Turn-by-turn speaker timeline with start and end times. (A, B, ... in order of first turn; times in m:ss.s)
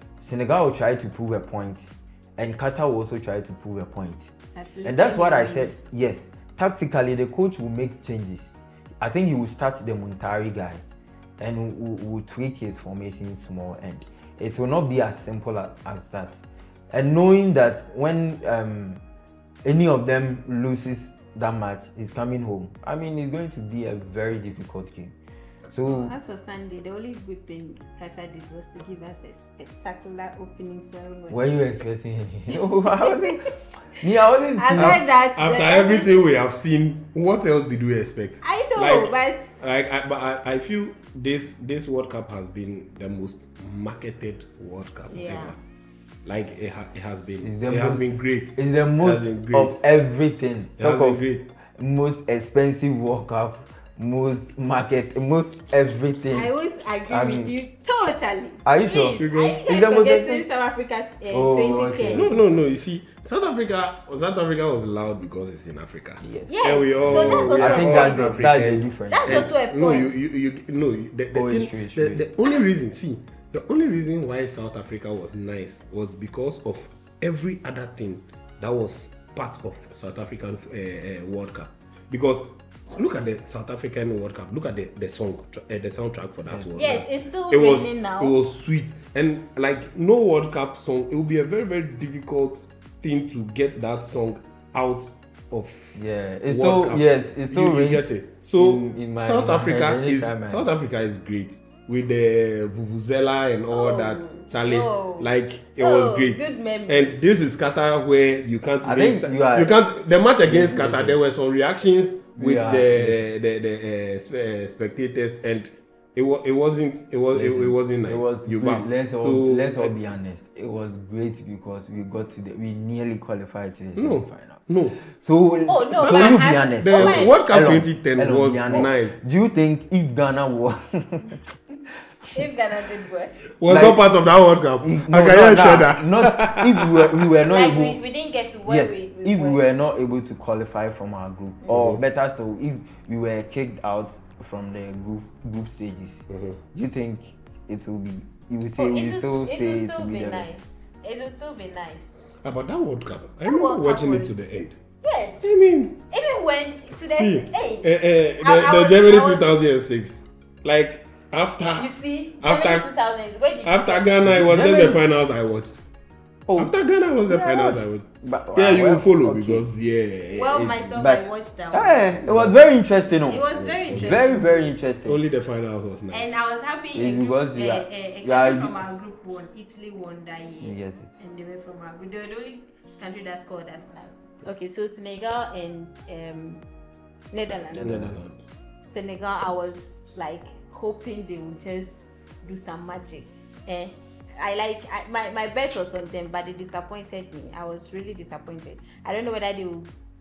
0:00.2-0:04.3 A
0:04.6-0:05.7 B
0:04.8-0:10.8 A
0:11.4-0:16.4 A
0:16.9-0:19.0 A
0:19.6-0:25.1 A
0:25.7-0:26.1 A
0:25.9-0:31.4 B
0:31.3-0:35.0 A
0:33.0-0:33.3 B
0:34.6-0:36.1 B
0:34.8-0:45.6 C
0:38.4-0:39.6 B
0:45.1-0:45.5 B
0:46.2-0:49.8 C
0:47.4-0:51.2 A
0:50.8-0:51.5 C
0:51.8-0:56.5 A
0:56.3-1:02.3 B
0:57.1-0:57.5 A
0:58.6-1:00.4 A
0:59.2-0:59.6 C
1:01.3-1:02.4 A
1:02.0-2:00.0 C
1:06.2-1:06.5 A
1:06.5-1:08.4 B
1:07.0-1:09.5 A
1:09.1-1:10.1 B
1:11.3-1:12.2 A
1:26.5-1:26.7 A
1:26.7-1:28.4 B
1:36.0-1:40.6 A
1:43.7-1:47.2 B
1:48.8-1:49.7 A
1:50.5-1:51.2 A
1:52.4-1:53.2 A
1:57.3-2:11.4 A
2:04.0-2:05.0 C
2:05.7-2:07.3 B
2:05.9-2:09.2 C
2:12.3-2:13.4 B
2:13.6-2:17.3 C
2:13.7-2:14.0 A
2:14.8-2:18.0 A
2:17.5-2:19.6 B
2:18.7-2:30.5 A
2:21.7-2:22.0 C
2:26.3-2:26.6 C
2:28.8-2:32.2 B
2:32.4-2:34.8 C
2:33.4-2:34.3 B
2:35.0-2:35.5 B
2:35.4-2:36.0 C
2:36.1-2:37.9 B
2:36.9-2:42.9 C
2:38.4-2:39.5 B
2:41.7-2:44.1 B
2:43.6-2:45.8 C
2:44.2-2:45.0 A
2:46.5-2:46.7 A
2:46.6-2:50.9 C
2:47.3-2:49.7 A
2:50.3-2:52.1 B
2:50.9-2:55.2 A
2:52.2-2:52.6 C
2:53.3-2:54.6 B
2:53.5-2:56.4 C
2:56.1-3:06.6 B
2:57.0-2:58.8 A
3:00.6-3:01.2 A
3:07.3-3:08.2 B
3:07.7-3:08.4 C
3:07.8-3:08.3 A
3:08.8-3:19.9 B